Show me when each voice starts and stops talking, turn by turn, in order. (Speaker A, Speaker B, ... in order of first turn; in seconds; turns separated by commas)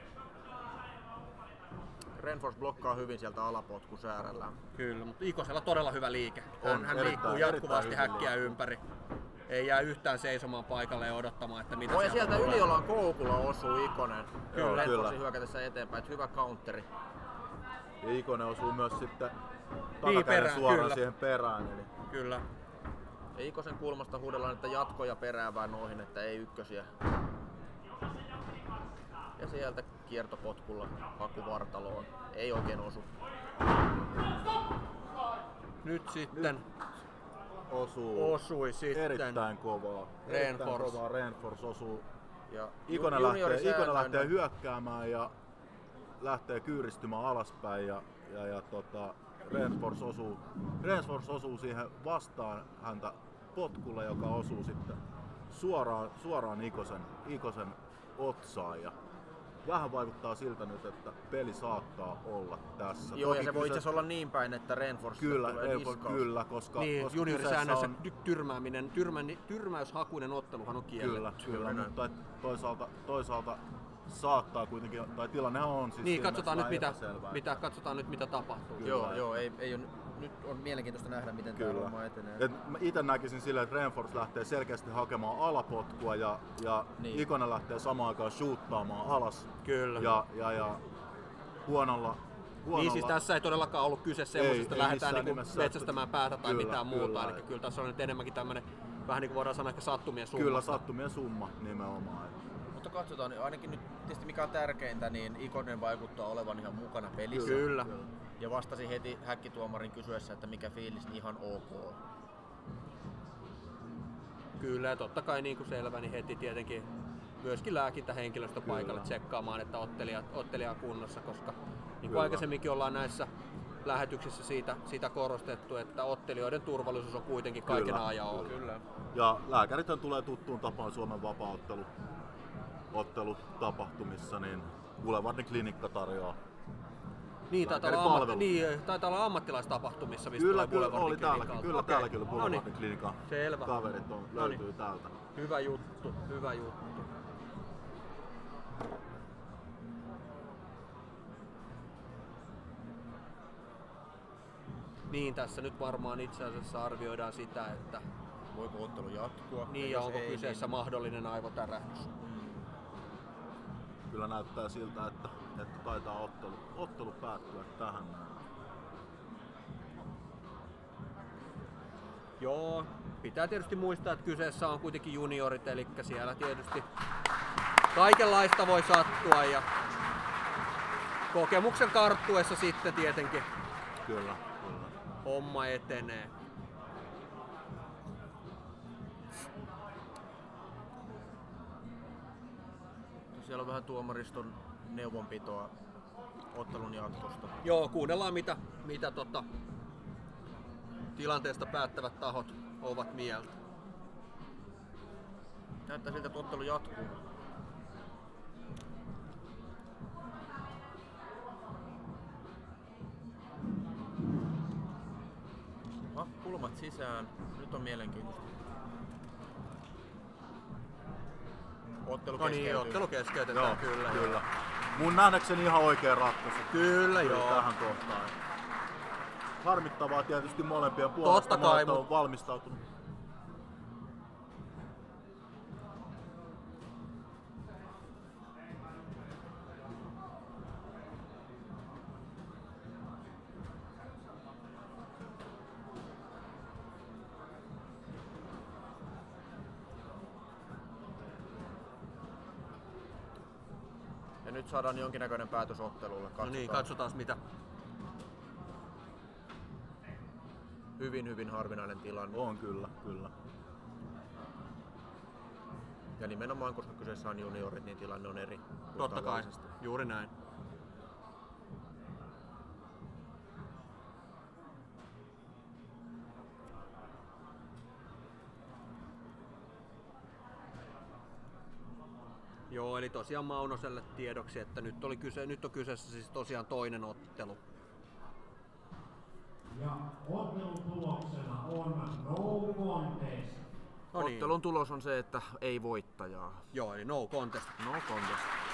Speaker A: 2.1-4.6, Speaker B: 4.7-8.8, Speaker C: 6.6-8.6, Speaker B: 9.5-12.8, Speaker A: 11.9-16.9, Speaker B: 14.5-14.9, Speaker C: 14.5-15.2, Speaker C: 18.0-19.3, Speaker C: 20.0-21.9, Speaker B: 20.0-21.0, Speaker B: 22.1-22.4, Speaker A: 23.3-26.9, Speaker A: 29.4-33.1, Speaker B: 35.8-36.6, Speaker C: 36.3-36.6, Speaker C: 37.7-42.0, Speaker B: 38.1-39.4, Speaker B: 40.2-41.0, Speaker A: 42.5-44.3, Speaker C: 42.9-45.3, Speaker C: 46.2-58.9, Speaker C: 59.6-63.9, Speaker A: 63.1-66.2, Speaker C: 65.2-68.0, Speaker B: 66.8-71.3, Speaker C: 71.0-77.6, Speaker A: 71.4-71.9, Speaker B: 76.0-79.0, Speaker C: 78.8-79.4, Speaker A: 78.8-82.5, Speaker C: 81.5-90.8, Speaker A: 87.0-87.3, Speaker B: 89.6-90.2, Speaker C: 91.6-93.2, Speaker B: 92.7-100.8, Speaker C: 94.3-97.4, Speaker C: 100.3-102.3, Speaker A: 102.7-107.7, Speaker C: 107.3-108.1, Speaker B: 107.3-107.9, Speaker A: 108.4-112.0, Speaker B: 114.6-116.9, Speaker B: 117.4-123.3, Speaker C: 118.6-119.1, Speaker C: 122.0-122.5, Speaker B: 123.8-128.6, Speaker C: 127.7-128.6, Speaker A: 128.4-128.8, Speaker C: 129.1-131.9, Speaker C: 132.9-136.4, Speaker B: 137.5-142.6, Speaker C: 137.6-138.5, Speaker C: 140.3-145.1, Speaker B: 143.3-143.8, Speaker B: 144.3-144.6, Speaker B: 145.3-146.8, Speaker B: 155.1-158.0, Speaker A: 158.5-160.7, Speaker B: 159.7-162.1, Speaker A: 162.2-162.6, Speaker C: 164.1-168.4, Speaker B: 172.4-176.8, Speaker B: 177.9-179.7, Speaker B: 181.3-183.5, Speaker C: 184.0-184.9, Speaker B: 185.2-186.3, Speaker A: 193.3-195.7, Speaker A: 196.5-197.6, Speaker B: 197.6-199.4, Speaker B: 201.2-203.5, Speaker A: 205.9-207.2, Speaker A: 216.1-218.5, Speaker A: 222.0-223.1, Speaker B: 222.3-224.4, Speaker C: 223.5-228.3, Speaker B: 226.7-227.7, Speaker C: 229.6-232.8, Speaker B: 231.2-232.1, Speaker A: 254.4-256.9, Speaker B: 256.4-257.4, Speaker A: 261.0-262.4, Speaker C: 262.3-263.3, Speaker A: 266.2-269.6, Speaker B: 268.9-270.3, Speaker B: 282.7-287.6, Speaker D: 289.7-293.6, Speaker A: 294.1-296.6, Speaker B: 294.1-294.5, Speaker B: 296.7-297.7, Speaker A: 297.8-298.5